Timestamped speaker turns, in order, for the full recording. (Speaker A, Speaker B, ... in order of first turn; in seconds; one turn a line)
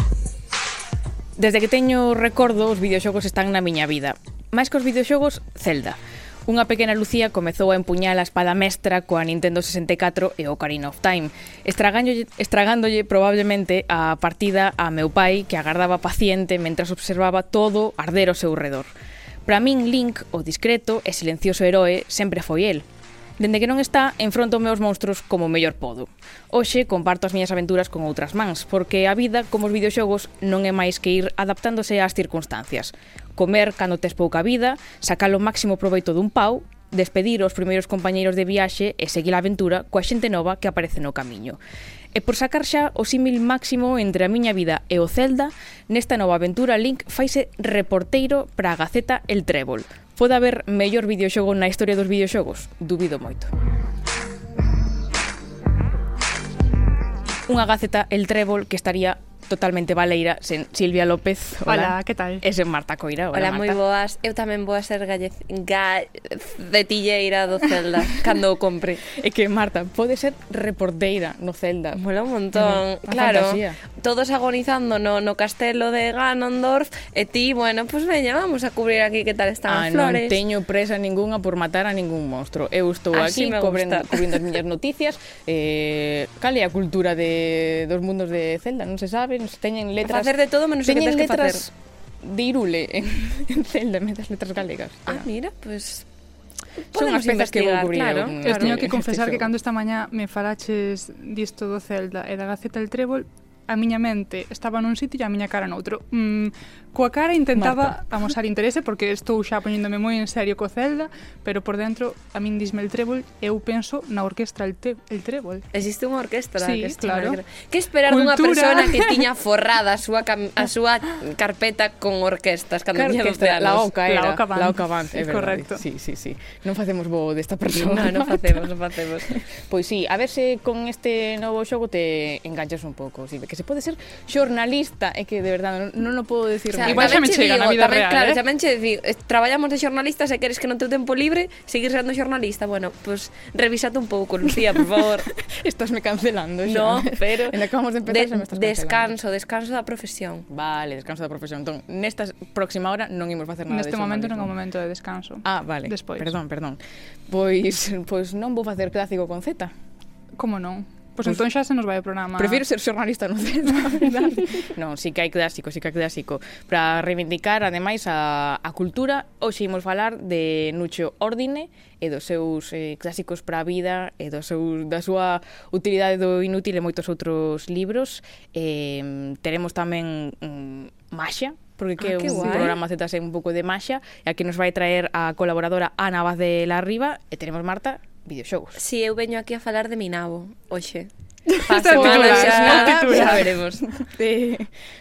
Speaker A: 1.4-18.9
Speaker A: 19.5-22.9
Speaker A: 23.4-41.6
Speaker A: 42.1-53.5
Speaker A: 57.5-63.8
Speaker B: 61.7-62.4
Speaker C: 63.3-69.0
Speaker A: 69.2-72.0
Speaker C: 71.9-80.4
Speaker A: 72.5-73.8
Speaker A: 79.7-95.3
Speaker C: 83.1-84.4
Speaker C: 90.0-91.7
Speaker C: 95.1-96.1
Speaker C: 96.9-98.8
Speaker A: 97.0-99.5
Speaker B: 98.4-115.7
Speaker A: 107.6-108.0
Speaker C: 115.7-123.9
Speaker B: 116.6-117.4
Speaker B: 118.0-119.3
Speaker A: 122.9-128.7
Speaker B: 124.0-125.8
Speaker C: 127.8-129.3
Speaker A: 129.4-137.2
Speaker C: 136.7-145.3
Speaker B: 136.8-138.4
Speaker A: 145.3-149.2
Speaker C: 146.7-150.4
Speaker A: 150.5-154.5
Speaker B: 153.7-156.4
Speaker A: 155.4-159.7
Speaker B: 160.4-162.6
Speaker A: 162.4-188.8
Speaker B: 163.7-164.7
Speaker B: 182.0-182.7
Speaker C: 182.1-182.8
Speaker C: 188.8-191.1
Speaker A: 191.5-194.7
Speaker C: 191.6-193.8
Speaker B: 191.7-193.5